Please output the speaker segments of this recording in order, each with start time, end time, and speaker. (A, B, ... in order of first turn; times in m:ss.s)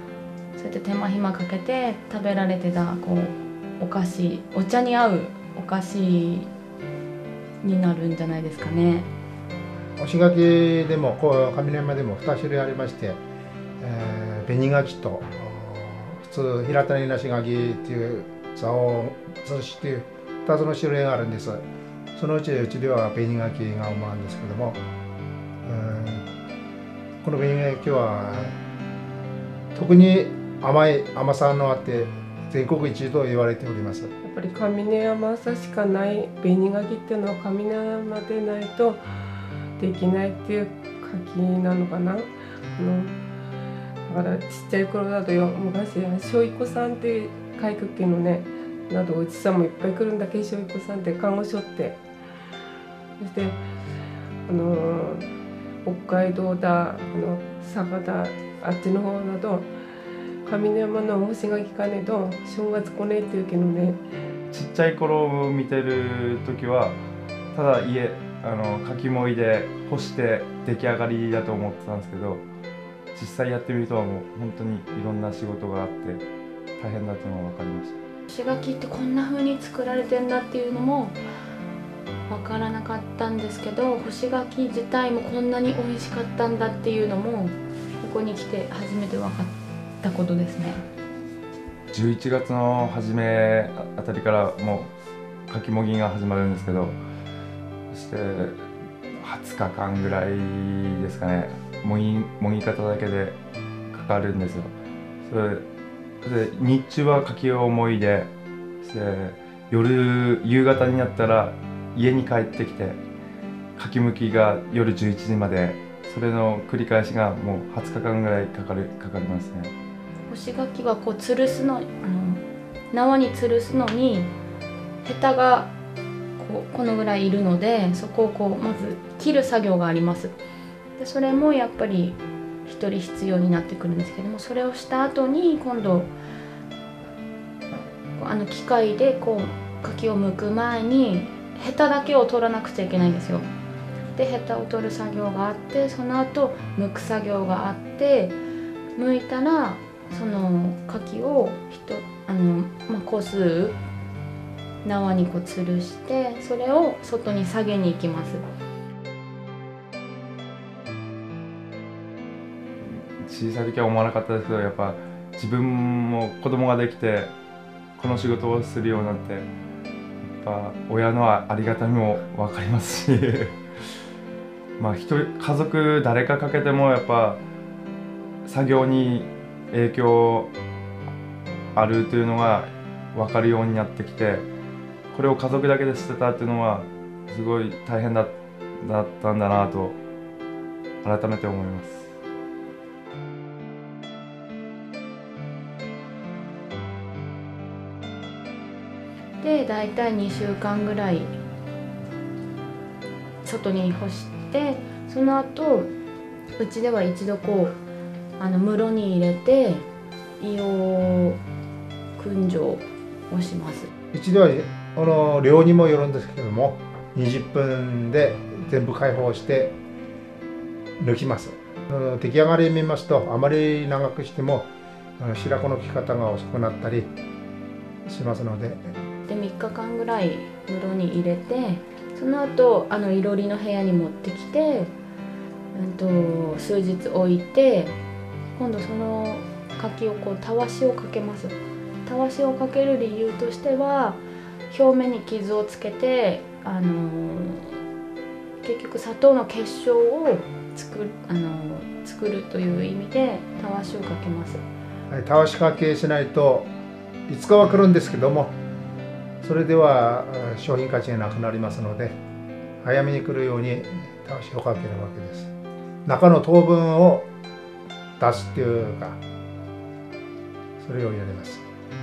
0:00.6-0:06.5 A
0:07.6-0:09.1 A
0:10.0-0:13.2 B
0:13.8-0:21.6 B
0:22.2-0:24.8 B
0:25.6-0:26.2 B
0:27.2-0:28.5 B
0:29.7-0:34.1 B
0:34.2-0:43.2 C
0:44.0-0:52.0 C
0:53.2-0:53.6 C
0:54.4-0:55.3 C
0:55.8-0:59.7 C
1:00.4-1:04.0 C
1:04.5-1:07.0 D
1:07.5-1:12.4 D
1:13.1-1:16.2 D
1:16.8-1:18.0 D
1:18.3-1:21.2 A
1:22.3-1:30.8 A
1:31.9-1:34.9 D
1:35.5-1:37.0 D
1:37.9-1:38.6 D
1:39.2-1:43.4 D
1:43.9-1:45.6 D
1:46.2-1:48.3 D
1:48.8-1:53.0 D
1:53.8-1:59.7 D
2:00.3-2:04.3 A
2:05.0-2:05.7 A
2:06.4-2:10.4 A
2:11.0-2:16.1 A
2:18.2-2:23.5 A
2:24.1-2:28.4 A
2:29.0-2:33.8 A
2:34.8-2:38.4 A
2:42.8-2:47.3 D
2:48.0-2:49.5 D
2:50.3-2:53.6 D
2:54.8-2:57.4 D
2:58.4-3:00.5 D
3:01.7-3:04.5 D
3:05.1-3:10.0 D
3:11.0-3:12.1 D
3:19.4-3:21.3 A
3:23.4-3:25.9 A
3:26.6-3:27.8 A
3:28.4-3:29.9 A
3:30.4-3:31.4 A
3:32.2-3:33.9 A
3:34.1-3:39.7 B
3:41.0-3:47.1 B
3:48.0-3:48.9 B
3:49.3-3:54.9 A
3:55.7-3:58.0 A
3:58.5-4:07.8 A
4:08.6-4:14.6 A
4:15.1-4:16.7 B
4:17.3-4:18.5 B
4:19.4-4:22.2 B
4:22.8-4:25.5 B
4:26.0-4:27.3 B
4:28.2-4:29.2 B
4:30.8-4:31.6 B